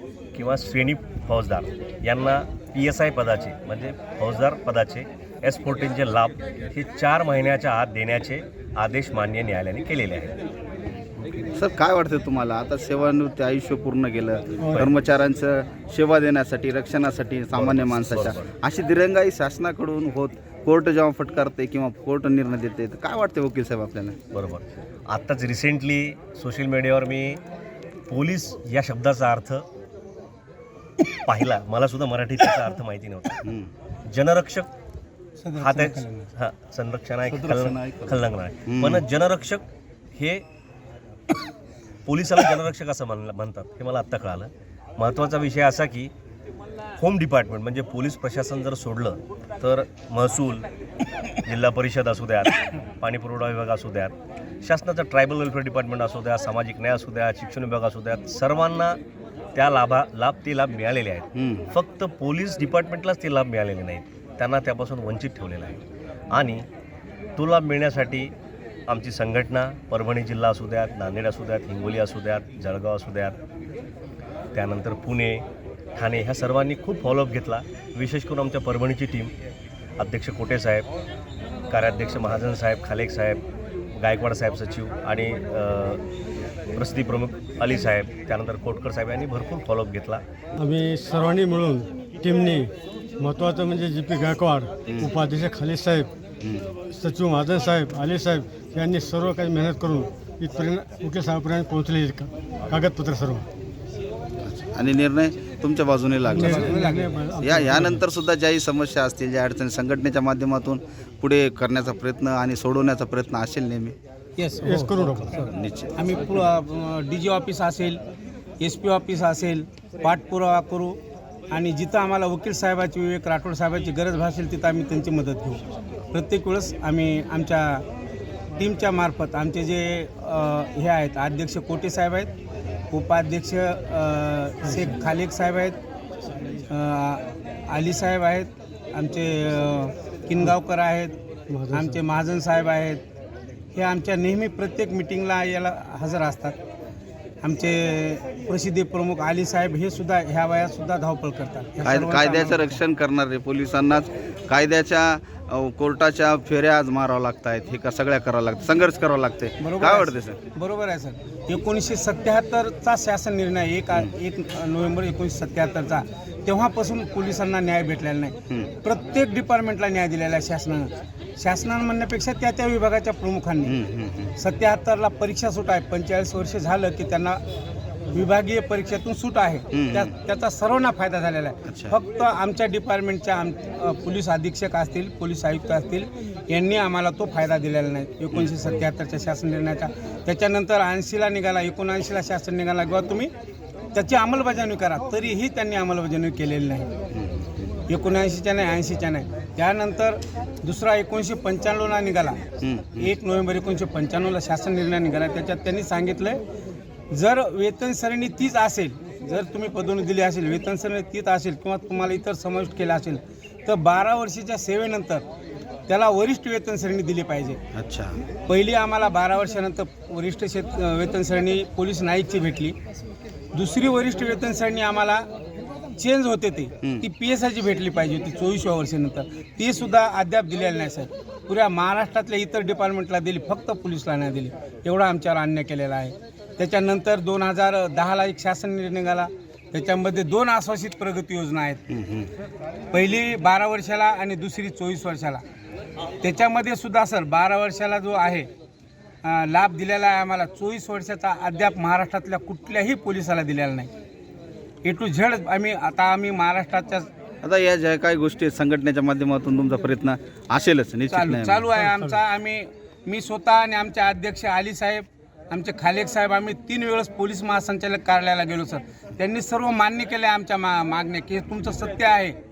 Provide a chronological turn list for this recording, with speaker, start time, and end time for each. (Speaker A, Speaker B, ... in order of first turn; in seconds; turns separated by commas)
Speaker A: 0.3-10.3, Speaker B: 11.6-24.2, Speaker C: 14.6-14.9, Speaker A: 17.5-18.5, Speaker A: 24.3-27.4, Speaker A: 28.1-29.6, Speaker A: 31.3-33.4, Speaker B: 33.4-33.7, Speaker A: 34.1-34.7, Speaker D: 35.4-36.3, Speaker A: 35.6-40.4, Speaker B: 37.3-38.2, Speaker B: 38.7-39.0, Speaker A: 42.1-46.1, Speaker A: 47.0-50.7, Speaker A: 51.4-59.0, Speaker A: 59.5-65.8, Speaker B: 61.4-61.6, Speaker A: 66.3-66.7, Speaker A: 67.4-68.3, Speaker A: 68.9-73.4, Speaker A: 74.5-75.5, Speaker A: 76.0-79.3, Speaker A: 80.0-80.9, Speaker A: 81.7-83.4, Speaker A: 84.0-86.0, Speaker A: 86.8-90.2, Speaker C: 90.6-96.1, Speaker B: 96.4-96.7, Speaker C: 96.9-103.5, Speaker B: 104.4-106.6, Speaker C: 106.3-108.0, Speaker D: 106.5-107.1, Speaker B: 107.4-114.0, Speaker D: 114.4-115.4, Speaker C: 114.6-115.5, Speaker B: 115.4-115.9, Speaker D: 116.0-118.0, Speaker D: 118.6-121.0, Speaker D: 121.5-125.6, Speaker D: 126.1-127.8, Speaker D: 128.6-132.3, Speaker D: 132.9-135.8, Speaker C: 134.7-135.0, Speaker D: 136.7-141.1, Speaker C: 141.5-142.0, Speaker D: 141.7-143.0, Speaker D: 143.7-146.6, Speaker D: 147.4-152.8, Speaker B: 151.8-160.4, Speaker D: 159.6-173.7, Speaker B: 173.7-174.3, Speaker D: 174.4-177.4, Speaker D: 178.1-193.3, Speaker B: 179.7-180.1, Speaker B: 181.7-182.0, Speaker B: 188.3-188.9, Speaker D: 193.9-196.9, Speaker B: 197.1-197.7, Speaker D: 197.9-202.4, Speaker B: 202.6-203.1, Speaker D: 203.1-206.4, Speaker D: 207.1-215.2, Speaker D: 215.9-217.6, Speaker B: 217.8-218.2, Speaker D: 218.4-222.8, Speaker D: 223.5-225.3, Speaker D: 226.0-241.8, Speaker B: 241.9-242.3, Speaker D: 242.9-245.4, Speaker D: 246.2-248.5, Speaker D: 249.2-253.9, Speaker D: 254.8-257.1, Speaker B: 257.4-261.7, Speaker D: 261.1-272.4, Speaker C: 261.8-262.2